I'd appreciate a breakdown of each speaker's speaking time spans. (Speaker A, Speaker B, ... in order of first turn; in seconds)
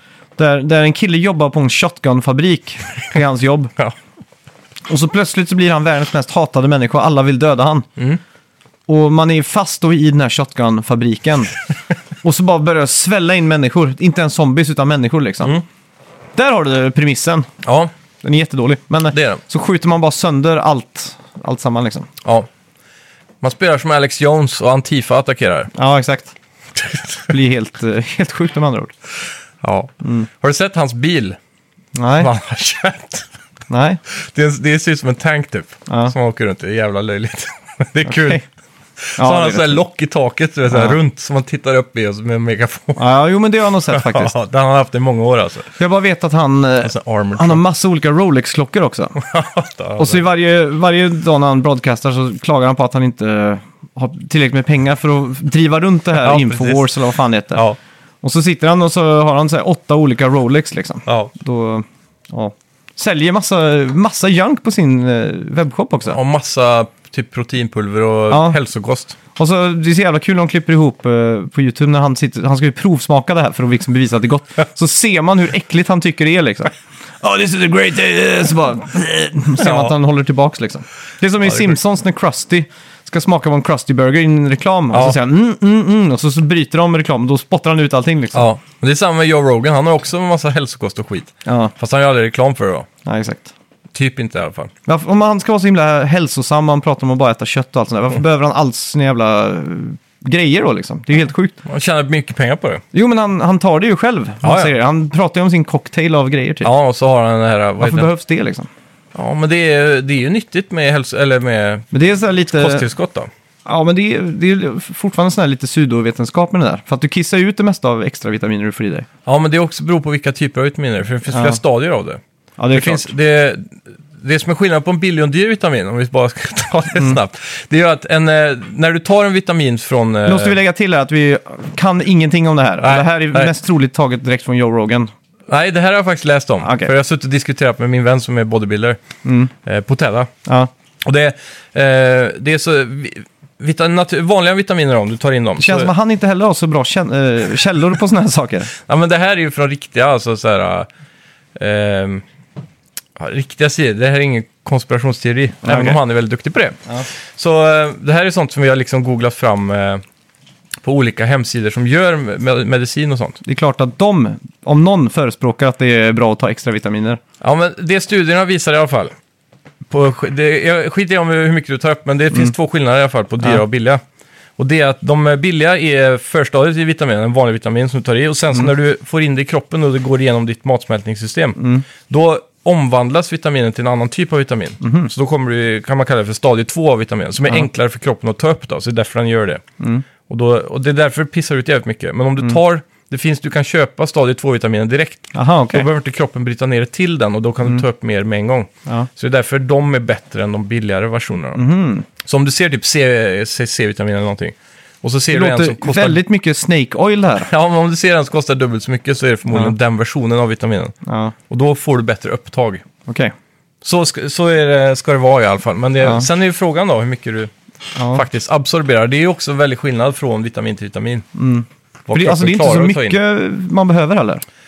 Speaker A: 0.4-3.7, 4.9-7.9, 8.9-11.6, 12.2-15.6, 16.4-17.5, 18.2-22.1, 25.7-26.3, 27.3-28.9, 30.0-30.3, 31.9-32.3, 33.7-34.0, 35.9-36.1, 38.0-38.4, 39.2-39.8, 40.7-41.0, 43.0-44.3, 45.8-49.1, 50.0-57.6, 58.2-66.2, 68.3-68.6, 69.3-88.5, 91.5-91.7, 93.0-93.5, 94.8-101.5, 102.9-106.7, 107.8-108.7, 111.9-112.8, 113.7-119.1, 121.3-121.6, 122.6-123.1, 130.2-135.1, 136.6-136.9, 139.2-139.5, 145.6-148.7, 155.6-156.0, 163.4-167.2, 181.6-181.8, 184.8-185.1, 195.3-195.9, 201.5-202.1, 205.3-207.5, 211.1-211.3, 213.1-213.3, 216.0-216.3, 217.9-218.2, 221.3-224.4
Speaker B: 17.6-17.9, 19.1-19.4, 22.2-22.5, 23.4-25.7, 26.7-27.3, 29.6-31.4, 32.2-33.3, 34.1-38.4, 39.0-43.0, 43.9-45.7, 46.8-47.6, 49.1-50.2, 56.2-56.9, 61.0-61.3, 66.1-69.2, 79.6-79.9, 81.5-81.7, 84.9-85.2, 88.3-92.9, 93.9-94.7, 101.6-102.8, 104.4-104.7, 106.6-108.1, 109.1-111.9, 112.5-113.3, 119.2-122.2, 122.7-130.6, 132.8-133.5, 135.5-139.0, 139.6-140.3, 141.0-145.9, 148.8-150.9, 151.6-152.2, 153.2-160.0, 160.8-163.4, 167.4-169.1, 169.9-174.0, 174.6-189.6, 190.3-201.6, 202.2-206.2, 207.4-210.9, 211.5-212.8, 213.8-217.5, 218.1-221.3, 222.1-223.2